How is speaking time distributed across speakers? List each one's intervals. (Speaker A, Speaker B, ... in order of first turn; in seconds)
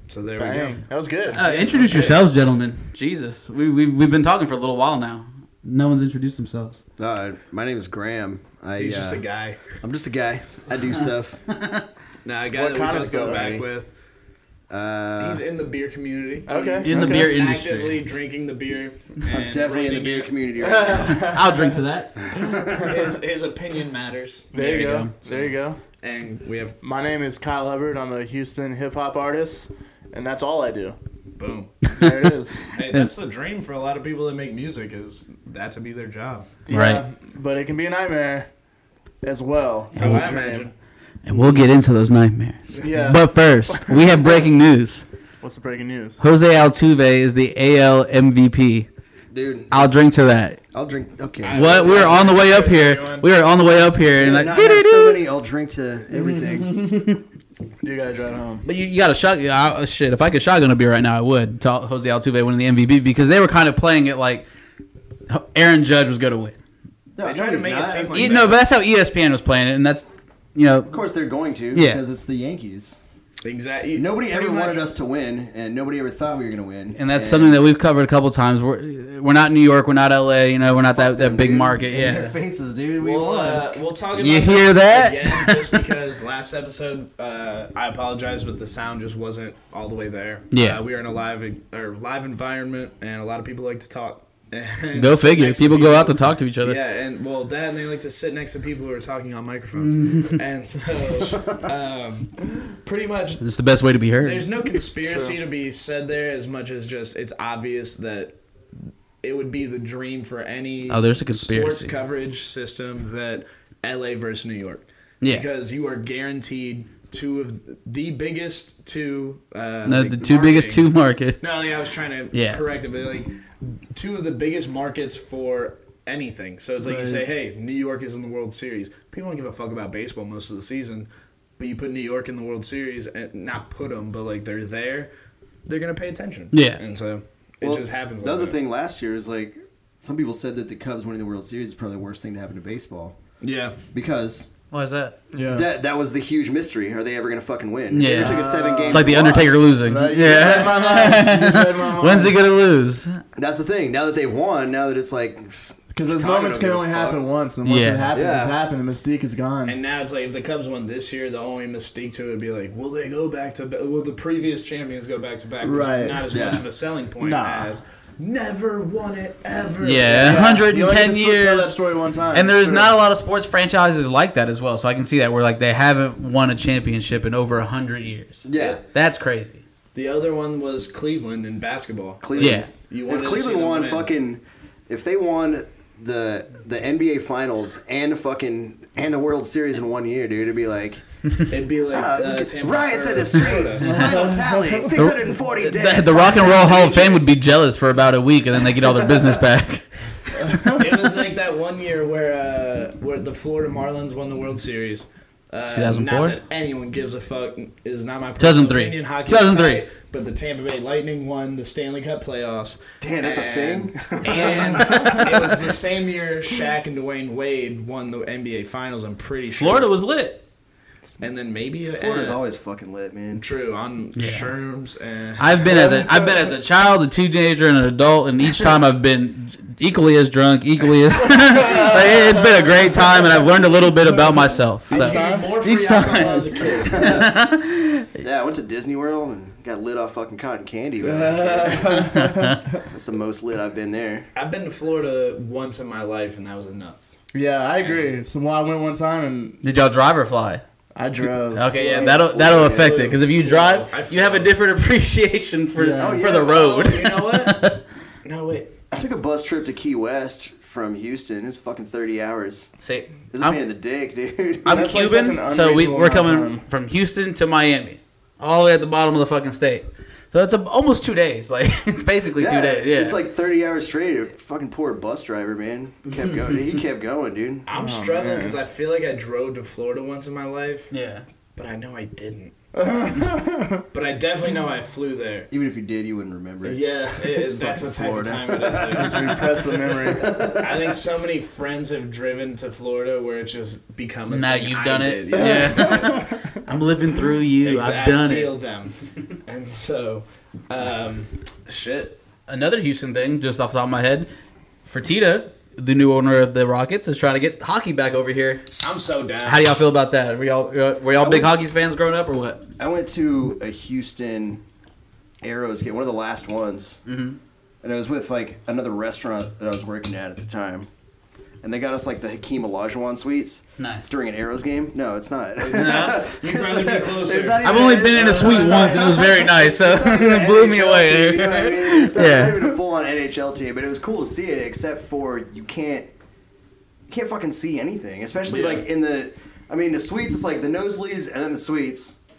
Speaker A: 0.1-2.3, 8.8-9.6, 12.2-13.9, 15.2-20.4, 22.8-24.5, 25.2-26.8, 31.4-31.9, 32.7-36.5, 40.0-40.7, 51.4-53.3, 67.2-68.6, 73.4-74.9, 83.0-103.4, 104.2-108.3, 109.2-120.8, 121.4-135.1, 135.7-138.6, 143.4-143.8, 159.7-170.7, 179.9-184.1, 191.5-194.1, 200.6-219.9, 221.2-222.4, 223.3-225.8, 234.9-237.1, 244.3-247.1, 247.8-248.1, 251.7-254.5, 256.6-257.7, 258.2-258.8, 277.6-280.9, 281.6-282.5, 283.9-285.5, 286.6-296.3, 297.6-302.2, 308.8-309.7, 325.6-329.0, 338.5-338.8
Speaker B: 0.4-1.4, 12.5-13.7, 16.5-17.2, 20.6-21.7, 22.4-22.9, 24.5-25.8, 26.8-31.0, 31.9-32.7, 36.7-38.5, 39.2-40.7, 42.8-44.4, 45.4-46.2, 57.8-58.6, 105.0-105.3, 126.8-127.2, 145.3-145.7, 148.0-152.4, 155.9-159.8, 165.6-166.2, 167.2-167.7, 170.1-172.9, 193.8-195.1, 225.7-226.3, 231.3-233.4, 234.0-235.5, 236.1-236.5, 241.0-242.6, 247.3-249.6, 250.9-252.4, 255.8-256.2, 264.6-266.6, 277.7-278.6, 282.7-283.8, 288.9-290.5, 295.3-296.3
Speaker C: 1.3-6.8, 11.5-11.8, 16.8-18.0, 21.1-22.1, 24.6-25.1, 36.7-37.0, 39.9-40.3, 41.2-45.0, 46.2-48.9, 49.7-50.6, 51.5-55.2, 56.4-57.2, 58.6-64.5, 65.3-66.6, 68.1-71.0, 71.7-72.0, 77.0-82.3, 84.1-85.7, 90.5-90.8, 95.0-96.8, 99.8-100.4, 103.4-104.5, 110.9-111.9, 119.8-121.5, 122.3-122.6, 136.5-136.8, 144.7-145.1, 147.9-153.2, 157.6-158.1, 169.8-171.8, 172.3-179.6, 182.3-182.7, 194.9-199.8, 205.7-206.4, 208.4-209.8, 214.9-215.2, 219.6-220.4, 224.2-224.5, 225.4-238.2, 242.1-242.6, 249.6-250.6, 251.2-257.8, 262.8-263.6, 264.6-273.2, 276.1-276.7, 280.9-281.2, 294.3-298.6, 302.5-304.3, 304.9-308.7, 309.4-312.6, 317.1-317.4, 323.8-324.1, 325.7-326.2, 327.6-332.7
Speaker D: 7.0-9.2, 9.8-11.4, 14.7-15.4, 19.3-21.3, 22.3-22.9, 49.3-50.1, 50.7-52.2, 54.1-56.8, 67.1-68.5, 70.9-73.0, 73.9-77.6, 80.7-83.7, 101.2-101.7, 137.6-143.2, 143.9-144.5, 145.5-149.7, 153.3-157.3, 158.1-158.5, 166.3-166.7, 178.4-178.8, 182.2-191.0, 191.9-197.2, 198.8-199.3, 213.0-215.2, 221.9-223.4, 236.6-237.4, 238.2-242.1, 242.9-244.3, 251.8-253.0, 255.9-256.9, 258.9-262.7, 263.3-264.8, 272.4-277.7, 285.5-289.3, 290.2-290.7, 311.2-311.6, 312.8-314.6, 315.4-317.0, 317.8-320.9, 321.6-336.1, 337.1-342.2